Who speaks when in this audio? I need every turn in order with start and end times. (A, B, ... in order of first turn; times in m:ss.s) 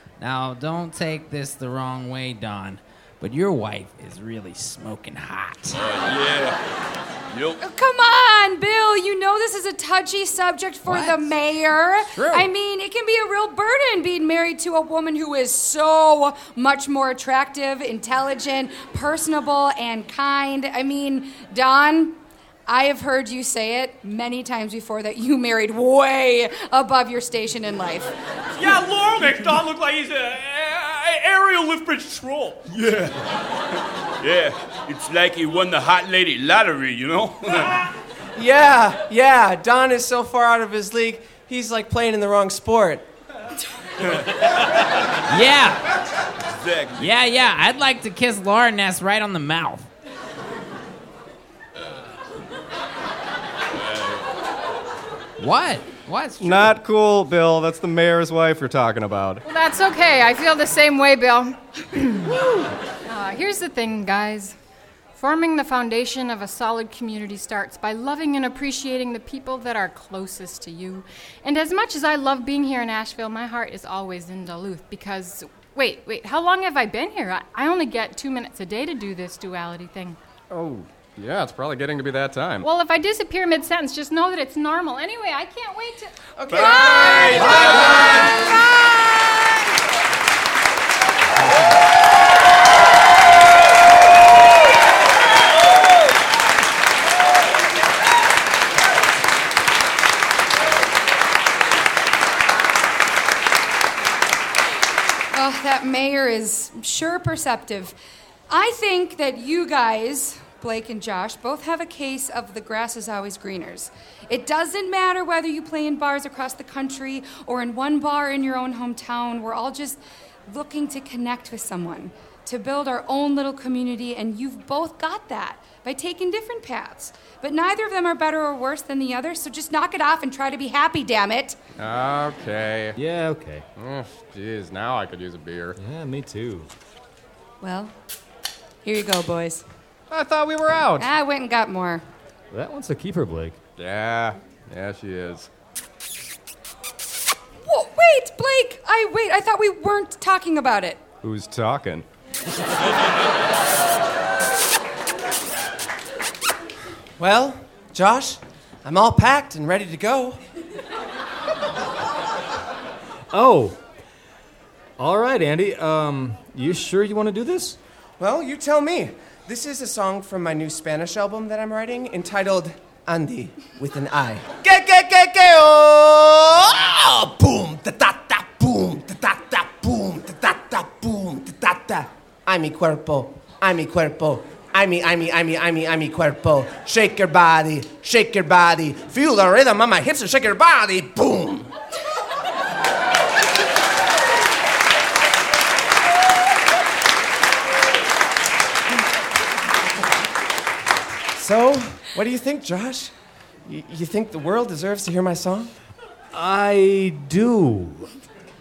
0:00.2-0:05.8 A
0:05.8-0:06.6 B
0:07.3-0:07.6 B
0:07.6-0:28.1 C
0:10.8-0:11.3 A
0:12.1-0:12.5 A
0:28.6-0:32.6 D
0:32.7-0:33.2 B
0:34.2-0:37.8 B
0:38.4-0:43.0 E
0:45.3-0:45.8 A
0:46.5-0:47.1 B
0:46.9-0:49.9 A
0:55.4-0:56.7 A
0:56.4-0:59.4 F
0:59.4-1:04.6 G
1:05.1-1:20.2 G
1:20.5-1:22.7 F
1:22.6-1:27.7 G
1:26.4-1:28.6 E
1:26.5-1:28.3 B
1:45.3-1:48.0 C
1:48.5-2:11.6 C
2:11.8-2:13.0 F
2:13.0-2:13.6 H
2:13.8-2:15.8 F
2:15.8-2:16.7 H
2:17.6-2:17.9 C
2:18.8-2:19.6 C
2:20.1-2:21.1 F
2:21.0-2:22.0 C
2:22.5-2:23.6 H
2:23.8-2:25.5 F
2:27.6-2:31.0 C
2:31.2-2:32.0 F
2:37.2-2:40.4 E
2:43.3-2:43.8 H
2:45.0-2:47.8 H
2:48.2-3:11.7 E
3:21.4-3:23.1 E
3:23.6-3:25.7 E
3:26.3-3:28.1 H